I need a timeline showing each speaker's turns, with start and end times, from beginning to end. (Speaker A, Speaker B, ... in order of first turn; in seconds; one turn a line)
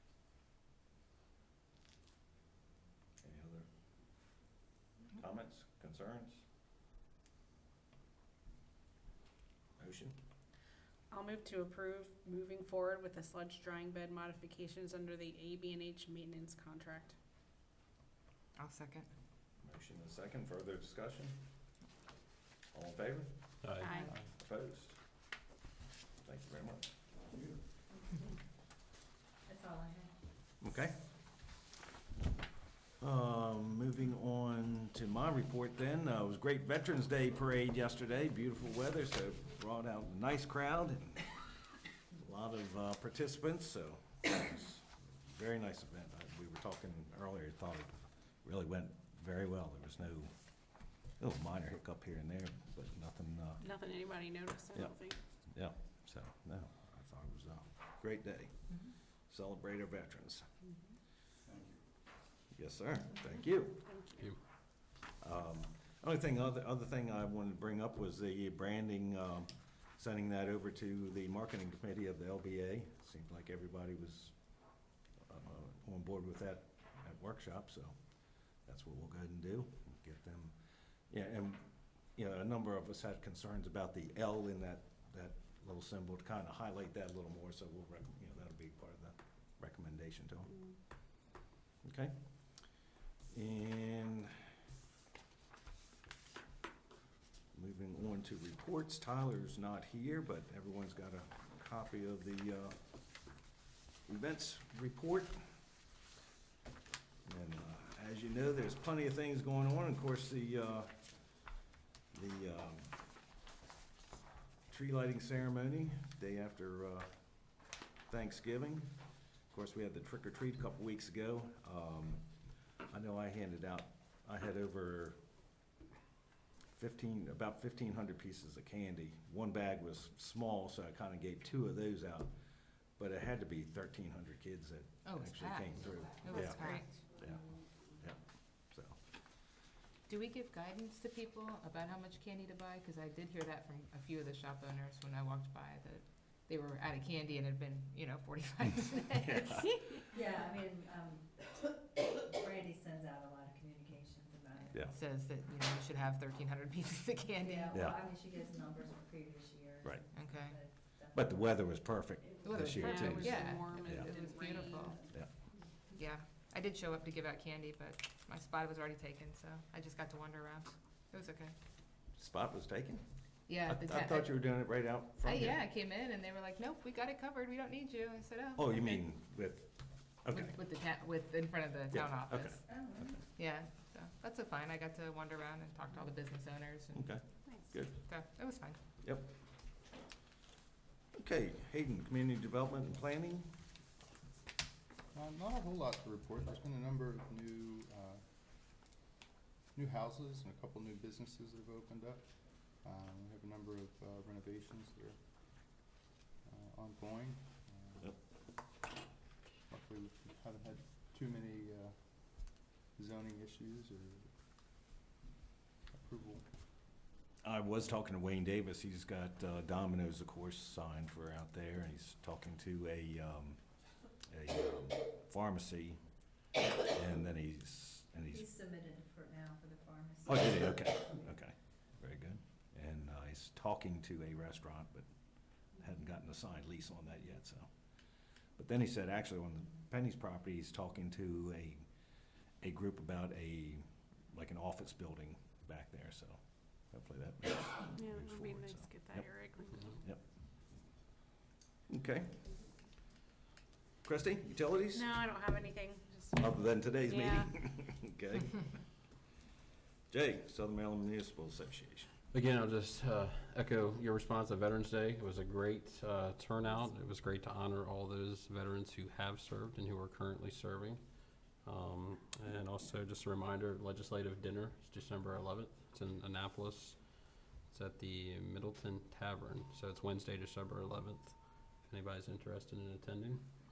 Speaker A: 3.2-3.6
Speaker A: 5.1-6.4
Speaker A: 9.8-10.1
Speaker B: 11.1-17.1
Speaker C: 18.6-19.1
Speaker A: 19.6-21.4
Speaker A: 22.7-23.3
Speaker D: 23.6-24.0
Speaker B: 23.8-24.2
Speaker A: 24.2-24.9
Speaker A: 26.2-27.4
Speaker E: 29.5-30.1
Speaker A: 30.6-30.9
Speaker A: 33.0-41.3
Speaker A: 42.2-50.3
Speaker A: 51.2-53.6
Speaker B: 53.6-55.2
Speaker A: 55.5-58.7
Speaker A: 59.3-60.5
Speaker A: 62.5-63.8
Speaker B: 63.7-64.3
Speaker A: 65.2-74.6
Speaker A: 75.3-77.9
Speaker A: 78.7-80.5
Speaker A: 81.1-90.6
Speaker A: 91.8-92.1
Speaker A: 93.3-94.3
Speaker A: 97.5-102.8
Speaker A: 104.0-105.4
Speaker A: 107.2-110.9
Speaker A: 112.1-113.0
Speaker A: 114.7-117.1
Speaker A: 118.1-118.9
Speaker A: 119.5-122.2
Speaker A: 122.9-125.2
Speaker A: 126.7-132.3
Speaker A: 133.0-139.0
Speaker C: 135.0-137.0
Speaker C: 140.1-150.1
Speaker A: 149.2-149.7
Speaker E: 150.1-154.9
Speaker C: 154.8-157.9
Speaker E: 157.5-161.2
Speaker A: 157.7-158.0
Speaker C: 160.1-160.6
Speaker A: 161.1-164.1
Speaker C: 162.4-165.1
Speaker B: 162.7-165.0
Speaker C: 165.9-171.5
Speaker A: 172.1-173.0
Speaker C: 173.5-174.3
Speaker A: 173.6-175.6
Speaker C: 175.2-179.0
Speaker A: 178.6-180.6
Speaker C: 180.3-182.8
Speaker A: 181.9-183.2
Speaker C: 183.3-187.1
Speaker A: 186.9-188.0
Speaker C: 188.0-188.8
Speaker A: 189.0-189.3
Speaker A: 191.1-193.5
Speaker F: 195.1-198.2
Speaker F: 199.7-205.9
Speaker F: 206.4-208.1
Speaker F: 209.7-214.3
Speaker F: 215.9-216.4
Speaker A: 217.4-223.6
Speaker A: 224.3-226.0
Speaker A: 226.8-228.5
Speaker E: 228.4-230.4
Speaker A: 230.2-235.1
Speaker A: 235.8-237.7
Speaker A: 238.6-241.8
Speaker A: 242.6-246.4
Speaker A: 246.9-250.2
Speaker B: 248.0-250.0
Speaker A: 251.9-252.4
Speaker A: 254.0-255.2
Speaker B: 254.9-257.5
Speaker A: 256.4-258.8
Speaker A: 260.1-262.1
Speaker D: 262.3-283.4